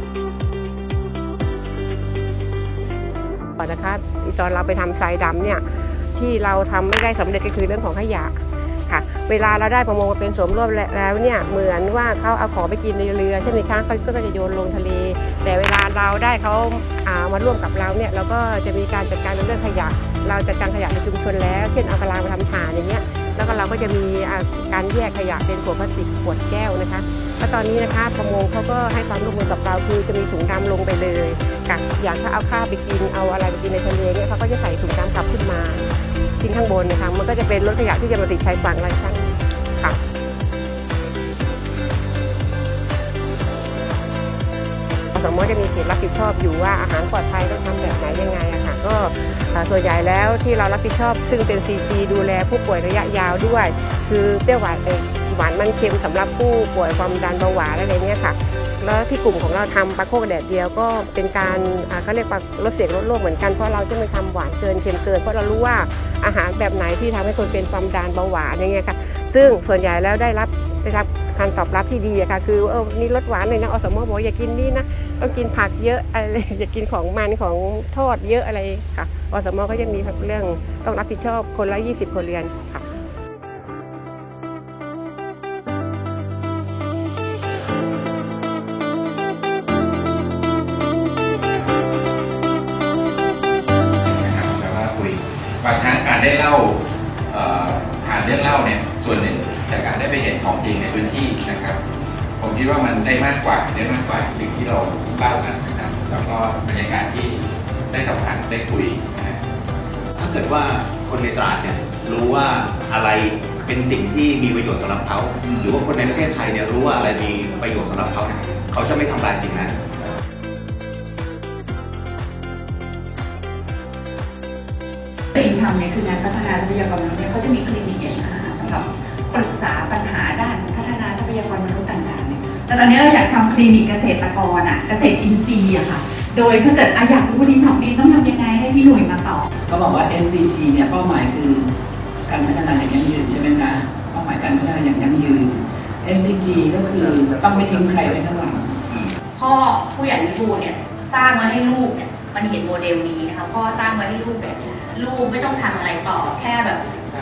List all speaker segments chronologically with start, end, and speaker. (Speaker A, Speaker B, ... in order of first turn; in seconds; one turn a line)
Speaker A: 3.6-35.9
Speaker A: 36.4-40.0
Speaker A: 45.1-82.9
Speaker B: 94.1-96.8
Speaker B: 97.3-101.8
Speaker B: 102.4-107.4
Speaker B: 107.9-109.4
Speaker C: 110.2-119.7
Speaker B: 115.5-115.7
Speaker D: 125.3-139.5
Speaker E: 139.7-141.7
Speaker E: 142.3-148.8
Speaker F: 149.3-156.9